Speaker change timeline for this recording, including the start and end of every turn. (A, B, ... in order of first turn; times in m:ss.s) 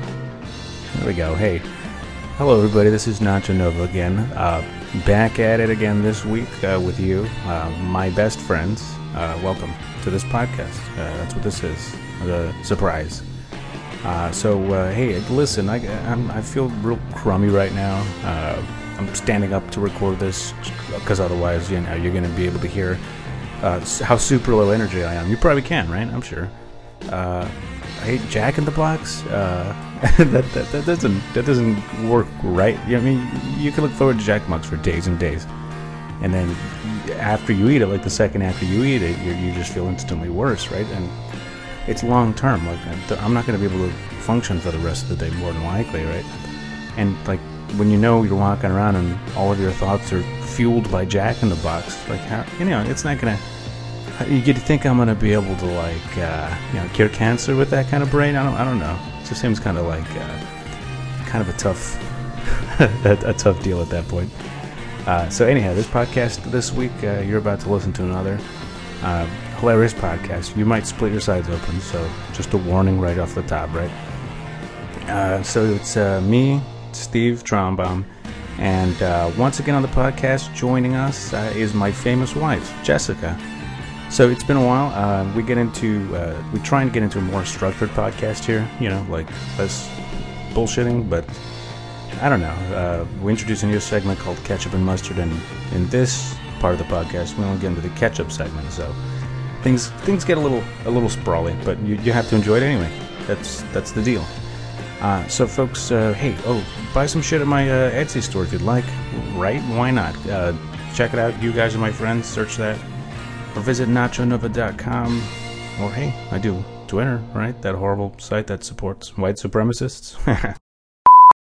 0:00.9-0:01.7 A
0:02.4-0:13.2 A
0:14.0-0:23.0 A
0:23.6-0:26.5 A
0:27.0-0:35.5 A
0:36.2-0:41.1 A
0:41.8-0:46.3 A
0:47.0-0:53.4 A
0:54.1-1:00.4 A
1:01.2-1:04.3 A
1:05.0-1:08.4 A
1:09.0-1:14.0 A
1:15.0-1:23.4 A
1:24.1-1:30.0 A
1:30.5-1:31.4 A
1:32.1-1:39.0 A
1:39.6-1:44.3 A
1:45.0-1:52.8 A
1:53.5-2:00.6 A